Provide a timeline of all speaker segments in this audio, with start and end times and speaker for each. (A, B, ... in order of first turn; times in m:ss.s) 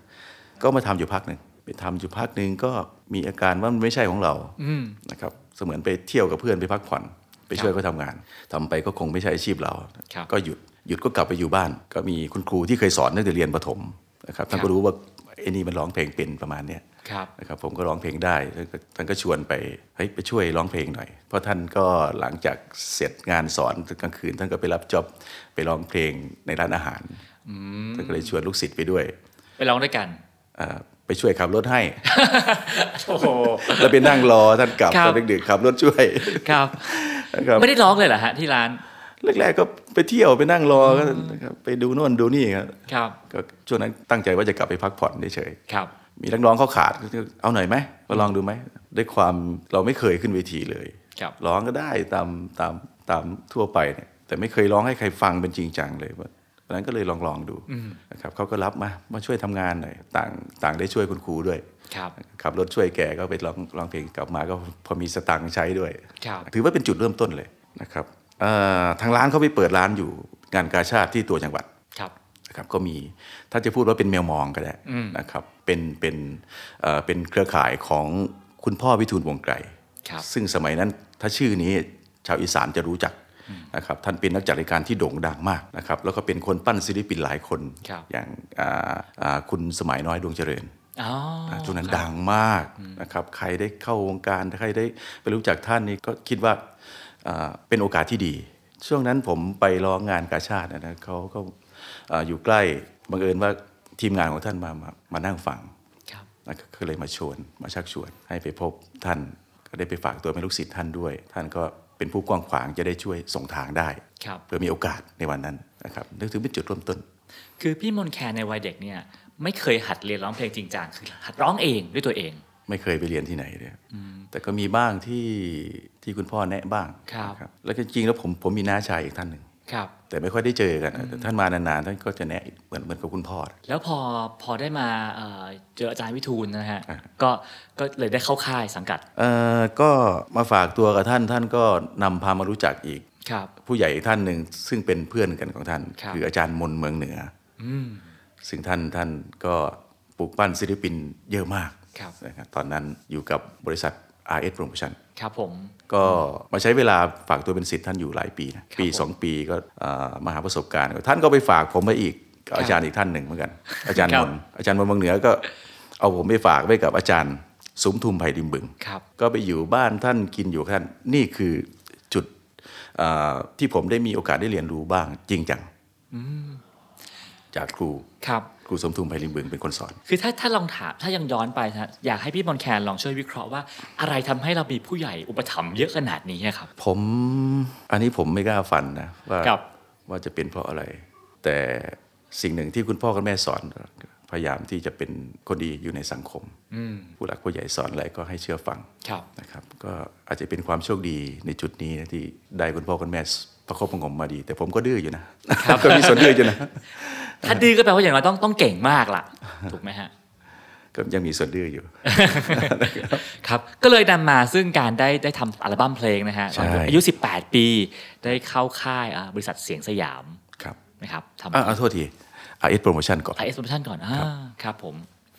0:00.6-0:16.8 A
0:04.6-0:05.0 B
0:17.0-0:17.3 B
0:17.4-0:27.2 A
0:27.4-0:28.3 B
0:27.9-0:29.1 A
0:29.6-0:30.2 B
0:30.6-0:32.1 A
0:32.0-0:35.3 B
0:33.2-0:37.7 A
0:36.2-0:38.8 B
0:39.2-0:45.6 A
0:40.8-0:41.4 B
0:42.9-0:43.2 B
0:46.2-1:01.6 A
0:57.7-0:58.0 B
1:01.9-1:02.1 B
1:02.2-1:11.7 A
1:06.2-1:06.5 B
1:12.5-1:23.2 A
1:14.8-1:15.2 B
1:23.7-1:30.7 A
1:31.0-1:32.1 B
1:31.5-1:36.6 A
1:32.8-1:33.0 B
1:37.2-1:45.7 A
1:46.4-1:57.0 A
1:54.2-1:54.4 B
1:57.6-2:02.4 B
2:02.7-2:09.5 A
2:03.9-2:04.3 B
2:07.1-2:07.4 B
2:09.7-2:09.9 B
2:10.1-2:13.6 A
2:11.0-2:11.3 B
2:13.6-2:19.0 B
2:19.2-2:23.0 A
2:23.2-2:23.5 B
2:23.6-2:27.3 A
2:27.6-2:28.1 B
2:28.4-2:35.0 A
2:35.2-2:36.2 B
2:35.9-2:45.4 A
2:38.7-2:39.0 B
2:43.7-2:44.3 B
2:46.0-2:52.3 A
2:52.9-2:55.7 A
2:56.1-2:56.6 B
2:57.5-2:58.1 A
2:58.2-2:58.5 B
2:58.6-3:00.0 A
3:00.1-3:06.7 B
3:06.8-3:09.6 A
3:10.1-3:16.6 A
3:16.7-3:17.1 B
3:17.2-3:27.7 A
3:25.6-3:26.6 B
3:27.4-3:30.1 B
3:30.9-3:33.2 A
3:32.0-3:40.4 B
3:36.5-3:37.0 A
3:41.0-3:41.8 B
3:41.5-3:43.4 A
3:43.4-3:45.1 B